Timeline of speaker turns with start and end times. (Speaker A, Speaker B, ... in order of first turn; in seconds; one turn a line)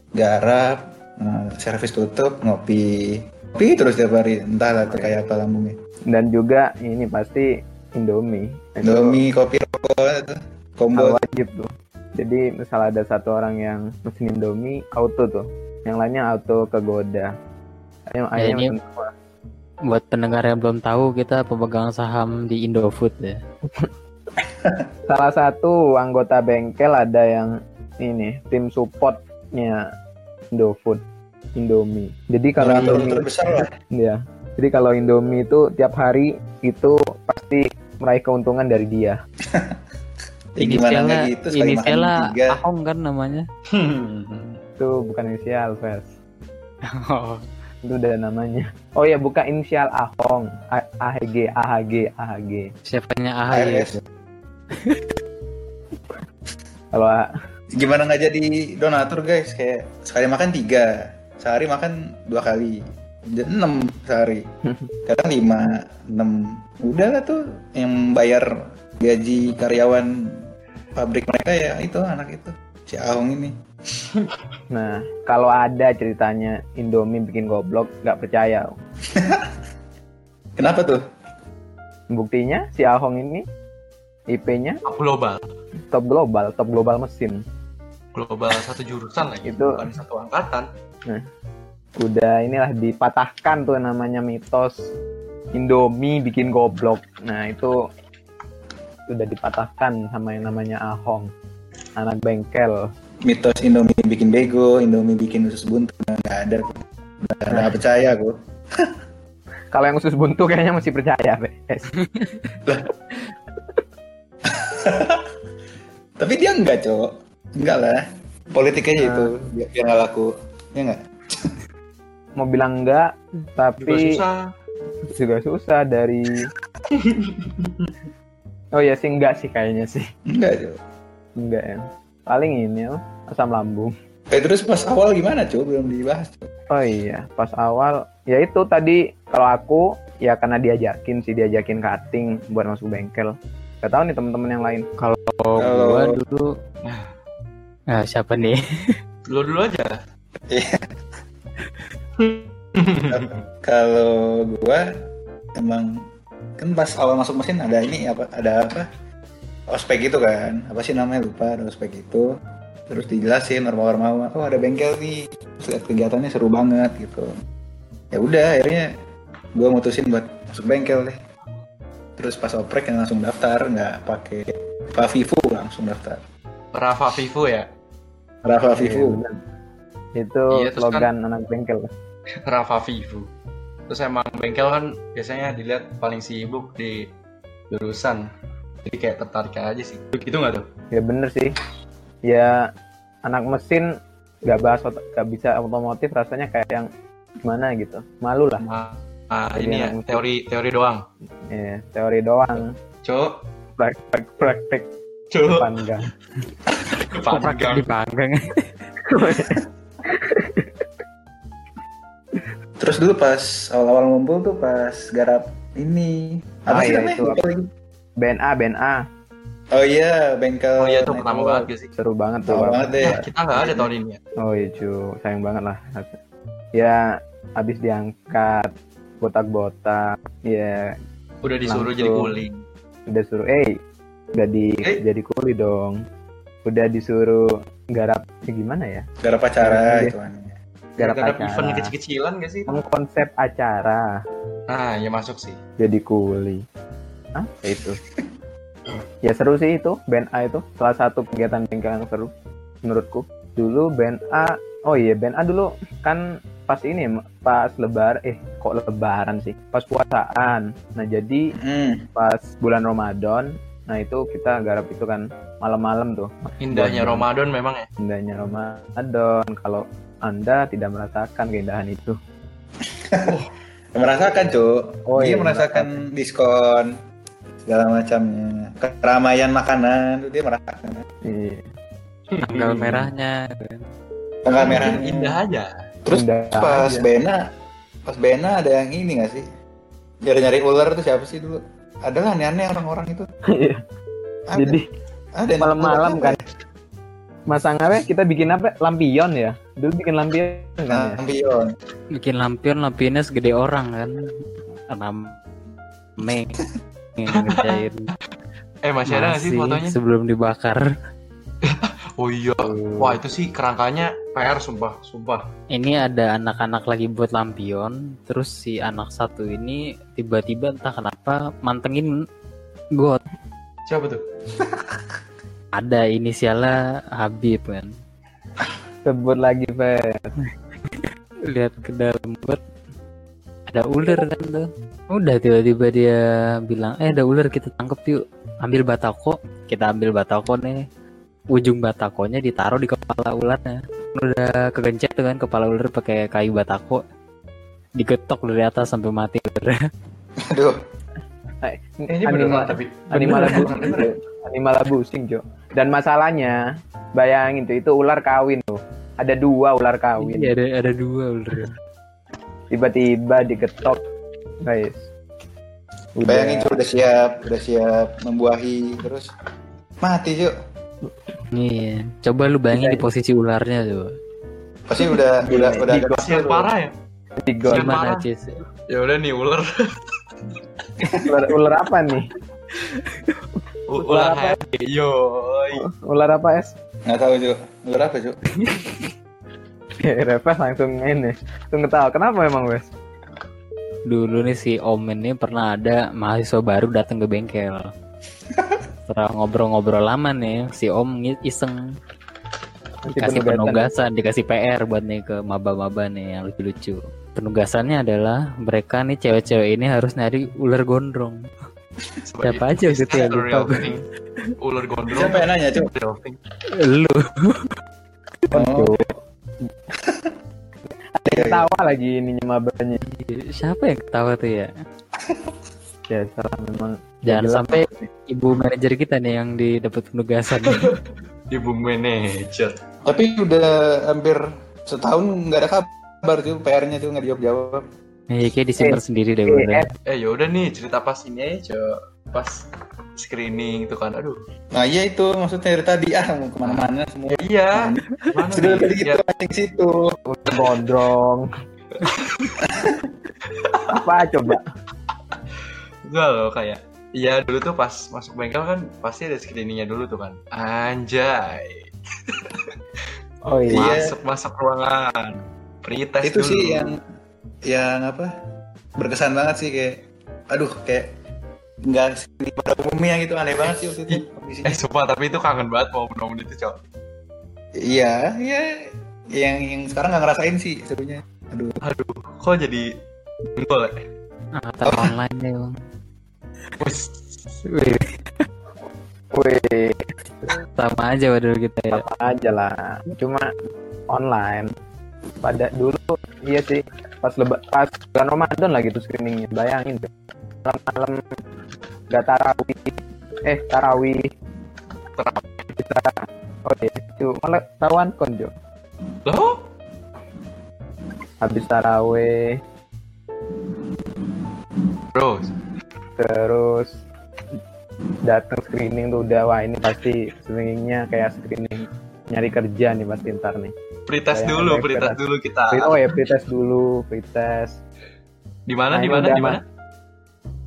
Speaker A: 0.1-5.8
Speaker B: 6.1-9.2
Speaker A: 8.8-11.2
Speaker B: 10.9-17.3
Speaker B: 18.1-19.1
Speaker C: 18.4-18.7
Speaker C: 19.9-23.4
Speaker A: 24.4-24.8
Speaker B: 25.1-29.8
Speaker B: 30.5-31.0
Speaker B: 31.6-33.3
Speaker A: 32.6-33.7
Speaker C: 32.7-33.1
Speaker B: 33.9-39.2
Speaker A: 39.5-39.8
Speaker A: 40.6-42.6
Speaker C: 40.6-43.5
Speaker D: 43.7-44.6
Speaker B: 44.8-46.1
Speaker C: 46.9-47.5
Speaker B: 47.8-52.7
Speaker C: 52.9-54.0
Speaker A: 53.5-54.0
Speaker C: 54.7-55.1
Speaker B: 56.9-57.3
Speaker A: 57.8-64.5
Speaker B: 64.7-64.9
Speaker A: 65.1-68.5
Speaker A: 69.0-70.1
Speaker A: 71.0-73.5
Speaker B: 74.7-78.7
Speaker A: 79.1-79.5
Speaker A: 80.6-81.0
Speaker B: 82.1-83.5
Speaker B: 84.3-84.8
Speaker D: 84.8-85.5
Speaker B: 85.9-87.4
Speaker D: 88.1-90.7
Speaker B: 89.4-89.8
Speaker B: 92.0-94.8
Speaker B: 95.5-97.7
Speaker B: 99.1-101.3
Speaker B: 102.0-102.9
Speaker A: 103.2-108.9
Speaker B: 109.7-111.9
Speaker A: 114.5-115.3
Speaker A: 116.2-121.5
Speaker B: 119.0-119.3
Speaker B: 122.4-124.2
Speaker D: 123.8-124.5
Speaker B: 125.1-126.5
Speaker D: 126.9-127.9
Speaker B: 128.7-130.0
Speaker A: 130.3-130.8
Speaker B: 131.4-133.9
Speaker A: 134.3-136.5
Speaker B: 136.7-144.9
Speaker C: 145.0-146.5
Speaker A: 145.6-146.2
Speaker D: 146.8-147.1
Speaker C: 147.9-148.9
Speaker D: 149.3-150.0
Speaker A: 150.5-150.8
Speaker D: 152.2-153.4
Speaker A: 153.1-154.9
Speaker A: 155.6-156.0
Speaker A: 156.6-158.9
Speaker A: 159.7-162.3
Speaker A: 162.9-167.3
Speaker A: 168.1-168.9
Speaker A: 169.6-171.2
Speaker A: 172.2-176.2
Speaker D: 176.7-177.7
Speaker A: 178.4-179.2
Speaker B: 178.7-179.4
Speaker B: 180.2-181.9
Speaker D: 180.5-181.1
Speaker D: 182.5-183.3
Speaker D: 183.9-187.1
Speaker D: 187.7-188.3
Speaker D: 188.8-190.7
Speaker B: 190.9-191.6
Speaker B: 192.2-192.7
Speaker B: 193.2-193.9
Speaker B: 194.4-196.9
Speaker B: 197.4-198.7
Speaker D: 198.6-201.1
Speaker B: 199.5-200.2
Speaker B: 201.5-202.7
Speaker D: 202.5-203.4
Speaker B: 203.8-204.9
Speaker D: 205.3-205.7
Speaker B: 205.5-206.1
Speaker D: 206.9-207.9
Speaker C: 207.3-208.7
Speaker B: 209.1-210.8
Speaker A: 212.8-217.7
Speaker B: 216.7-217.4
Speaker B: 218.2-219.0
Speaker A: 219.7-221.7
Speaker D: 220.8-221.9
Speaker B: 222.0-223.2
Speaker A: 222.5-223.9
Speaker D: 223.0-224.2
Speaker B: 224.4-226.2
Speaker B: 226.8-227.0
Speaker B: 227.6-230.9
Speaker D: 231.4-232.7
Speaker B: 231.7-232.4
Speaker B: 233.1-233.8
Speaker B: 234.3-236.0
Speaker B: 236.7-239.1
Speaker A: 239.2-240.6
Speaker B: 239.6-240.2
Speaker B: 241.0-241.9
Speaker D: 241.0-242.8
Speaker B: 242.7-244.2
Speaker D: 244.7-245.6
Speaker B: 245.8-246.7
Speaker B: 247.3-248.0
Speaker B: 249.2-252.3
Speaker B: 252.8-261.5
Speaker A: 261.6-262.1
Speaker B: 262.1-267.3
Speaker D: 266.6-267.9
Speaker B: 268.0-272.2
Speaker A: 272.9-273.4
Speaker A: 273.9-276.9
Speaker B: 275.1-276.0
Speaker A: 277.6-281.1
Speaker B: 281.2-281.6
Speaker D: 282.3-283.1
Speaker C: 282.4-283.8
Speaker A: 284.4-285.4
Speaker D: 284.6-285.7
Speaker A: 286.1-287.4
Speaker B: 286.1-287.1
Speaker A: 288.1-289.5
Speaker A: 290.2-293.3
Speaker B: 293.5-293.8
Speaker A: 294.5-294.8
Speaker B: 294.6-294.8
Speaker A: 295.4-296.4
Speaker B: 295.6-296.4
Speaker B: 297.5-301.2
Speaker A: 300.9-301.8
Speaker C: 302.1-304.3
Speaker C: 304.9-305.4
Speaker C: 306.2-306.6
Speaker C: 307.2-308.1
Speaker D: 307.3-307.9
Speaker D: 308.8-310.0
Speaker C: 309.1-310.9
Speaker D: 311.6-315.5
Speaker B: 312.6-313.2
Speaker C: 315.7-322.1
Speaker C: 322.9-323.2
Speaker D: 323.9-324.2
Speaker C: 325.7-327.9
Speaker B: 329.1-330.2
Speaker C: 330.9-332.6
Speaker C: 333.7-340.9
Speaker C: 341.5-347.0
Speaker C: 348.0-349.8
Speaker A: 350.4-350.8
Speaker B: 351.6-356.6
Speaker D: 352.1-354.1
Speaker C: 353.2-353.7
Speaker B: 357.1-360.5
Speaker C: 360.2-361.7
Speaker B: 362.7-364.0
Speaker B: 364.6-365.1
Speaker B: 366.2-366.8
Speaker A: 366.2-369.3
Speaker A: 370.0-370.5
Speaker C: 371.5-374.1
Speaker B: 372.7-373.1
Speaker A: 374.9-376.7
Speaker B: 375.4-376.1
Speaker D: 375.9-376.9
Speaker B: 377.4-378.0
Speaker D: 377.7-378.3
Speaker C: 377.7-378.6
Speaker D: 378.9-379.9
Speaker B: 381.0-382.3
Speaker D: 383.9-385.9
Speaker B: 384.0-384.6
Speaker B: 385.7-386.8
Speaker A: 387.1-388.4
Speaker B: 390.0-392.9
Speaker C: 394.1-397.9
Speaker C: 399.1-401.8
Speaker B: 403.1-403.9
Speaker C: 403.2-411.5
Speaker D: 412.2-414.0
Speaker C: 412.4-414.5
Speaker D: 414.6-416.4
Speaker A: 415.1-415.9
Speaker C: 416.7-417.8
Speaker B: 418.5-419.1
Speaker A: 418.5-418.9
Speaker A: 420.0-420.3
Speaker B: 421.2-423.0
Speaker A: 421.2-421.7
Speaker C: 423.1-424.7
Speaker A: 425.2-425.5
Speaker B: 426.1-428.1
Speaker C: 427.3-430.9
Speaker D: 430.5-432.8
Speaker A: 433.1-437.9
Speaker C: 438.3-439.9
Speaker B: 438.8-439.9
Speaker D: 440.1-444.4
Speaker A: 444.7-450.1
Speaker D: 446.6-449.2
Speaker B: 450.3-451.5
Speaker D: 451.9-452.6
Speaker A: 452.6-453.1
Speaker D: 453.5-454.0
Speaker B: 453.9-454.7
Speaker D: 456.1-462.7
Speaker B: 463.5-463.9
Speaker D: 463.7-466.9
Speaker A: 463.7-464.1
Speaker A: 466.2-467.0
Speaker A: 467.7-468.3
Speaker A: 469.0-471.1
Speaker A: 471.9-474.8
Speaker D: 473.7-476.8
Speaker A: 477.8-481.8
Speaker D: 481.8-482.9
Speaker D: 483.5-484.0
Speaker C: 484.6-485.8
Speaker A: 484.8-485.2
Speaker D: 486.8-487.4
Speaker C: 487.6-488.2
Speaker B: 489.3-490.1
Speaker C: 490.6-492.1
Speaker B: 491.9-493.5
Speaker B: 494.1-494.7
Speaker B: 495.4-500.1
Speaker B: 500.6-501.2
Speaker B: 502.1-504.3
Speaker D: 505.2-505.5
Speaker B: 505.8-508.5
Speaker D: 509.2-509.7
Speaker B: 511.4-512.6
Speaker D: 515.1-515.5
Speaker B: 516.2-517.0
Speaker B: 518.2-523.7
Speaker D: 524.1-526.2
Speaker B: 524.3-525.2
Speaker B: 525.7-527.8
Speaker D: 528.7-529.6
Speaker B: 528.9-529.6